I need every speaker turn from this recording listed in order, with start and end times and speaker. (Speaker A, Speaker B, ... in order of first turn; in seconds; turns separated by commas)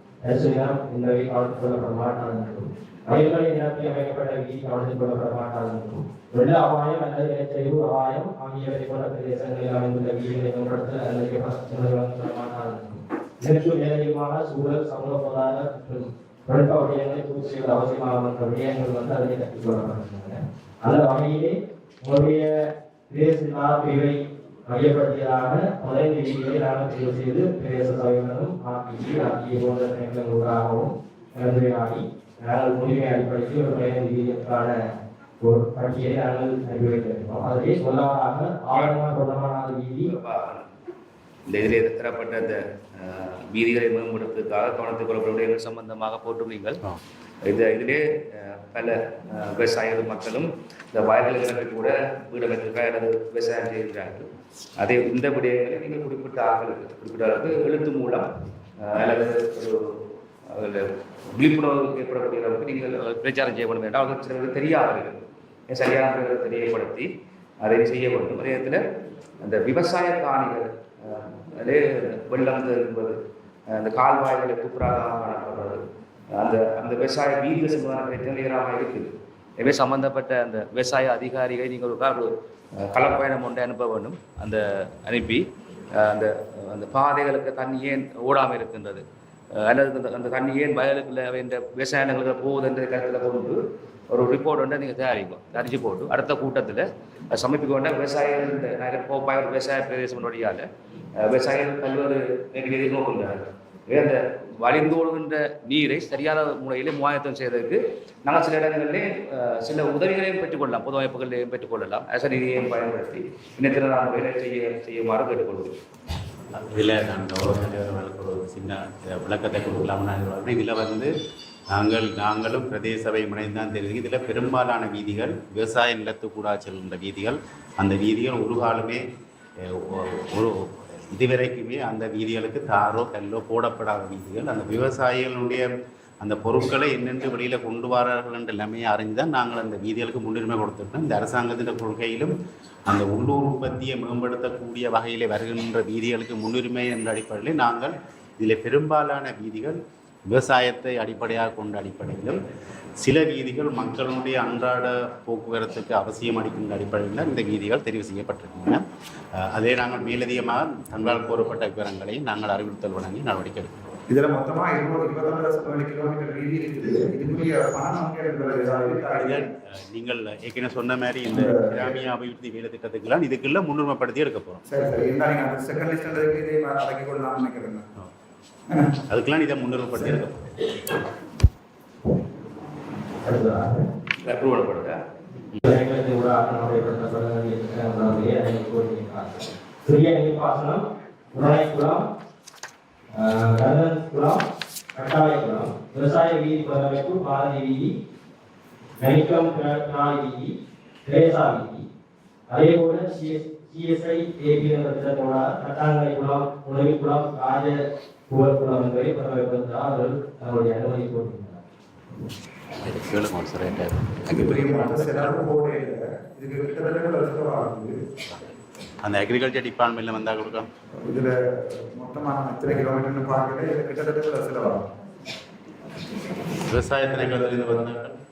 Speaker A: 0.2-22.6, Speaker A: 23.1-34.8, Speaker A: 35.4-40.1, Speaker B: 38.7-39.1, Speaker B: 40.0-40.7, Speaker B: 41.5-46.8, Speaker B: 47.4-58.3, Speaker B: 58.8-67.1, Speaker B: 67.6-68.8, Speaker B: 69.4-73.2, Speaker B: 73.7-75.8, Speaker B: 76.3-89.0, Speaker B: 89.5-93.6, Speaker B: 94.1-100.7, Speaker B: 101.2-115.8, Speaker C: 116.5-121.1, Speaker C: 121.7-129.0, Speaker C: 129.6-142.3, Speaker C: 142.9-152.4, Speaker C: 153.0-158.8, Speaker C: 159.4-163.8, Speaker D: 164.1-169.5, Speaker C: 169.2-174.7, Speaker D: 171.3-172.0, Speaker D: 174.7-177.9, Speaker D: 178.7-179.0, Speaker C: 179.1-180.6, Speaker A: 183.2-183.9, Speaker B: 184.2-185.0, Speaker C: 185.5-185.8, Speaker A: 185.6-192.1, Speaker A: 193.1-198.0, Speaker A: 199.0-201.9, Speaker A: 202.5-211.6, Speaker C: 212.8-215.4, Speaker D: 214.3-218.0, Speaker C: 219.0-220.7, Speaker D: 221.0-224.9, Speaker C: 226.7-228.2